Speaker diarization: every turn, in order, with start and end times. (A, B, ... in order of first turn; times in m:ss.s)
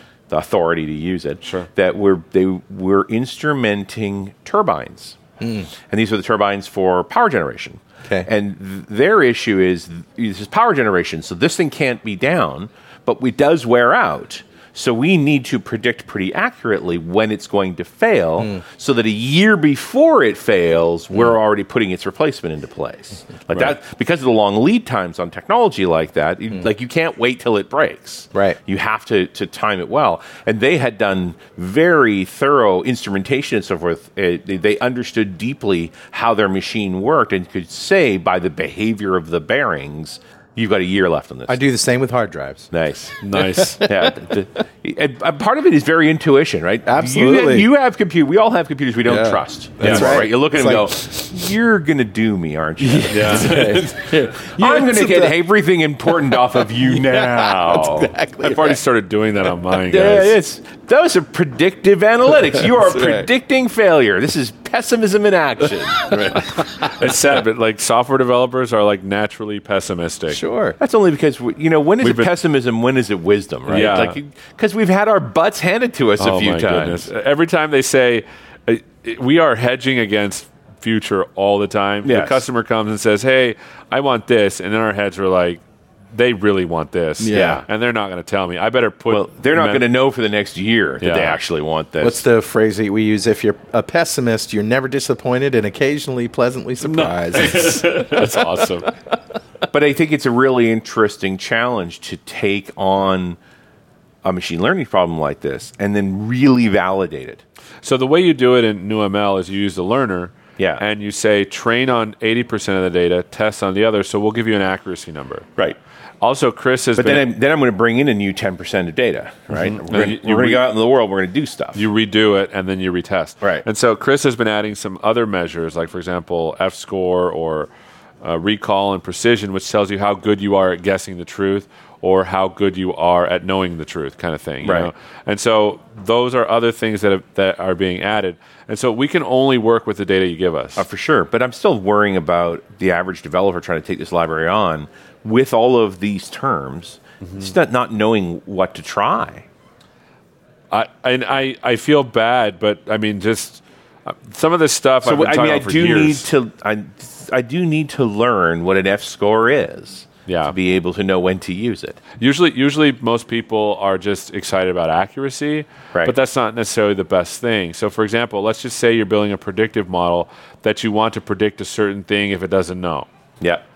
0:00.3-0:05.2 A
0:05.4-0:05.7 B
0:05.9-0:41.6 A
0:41.5-0:42.7 B
0:42.7-0:43.2 A
0:43.2-0:43.9 C
0:43.6-0:44.1 B
0:43.8-0:58.1 A
0:46.9-0:47.7 B
0:49.0-0:50.9 B
0:49.8-0:50.2 C
0:52.8-0:55.3 B
0:53.1-0:53.7 C
0:56.3-0:58.8 B
0:58.4-1:00.4 C
0:59.9-1:06.5 A
1:02.9-1:03.2 B
1:06.3-1:10.4 C
1:10.3-1:10.8 B
1:10.8-1:17.1 A
1:12.0-1:12.3 C
1:13.7-1:14.2 C
1:16.2-1:29.8 C
1:22.0-1:22.4 A
1:27.2-1:27.6 B
1:27.3-1:27.6 A
1:29.1-1:32.2 A
1:31.0-1:31.4 C
1:32.0-1:38.0 B
1:36.8-1:38.9 C
1:39.7-1:43.4 A
1:44.2-1:47.4 A
1:47.8-1:55.5 C
1:50.6-1:50.8 A
1:56.2-1:57.3 C
1:57.0-2:01.8 A
1:59.5-2:00.6 C
2:01.8-2:07.7 C
2:08.2-2:20.8 C
2:14.6-2:14.9 A
2:20.8-2:29.5 A
2:30.7-2:36.3 C
2:35.0-2:42.0 A
2:40.3-2:40.6 C
2:42.2-2:53.1 C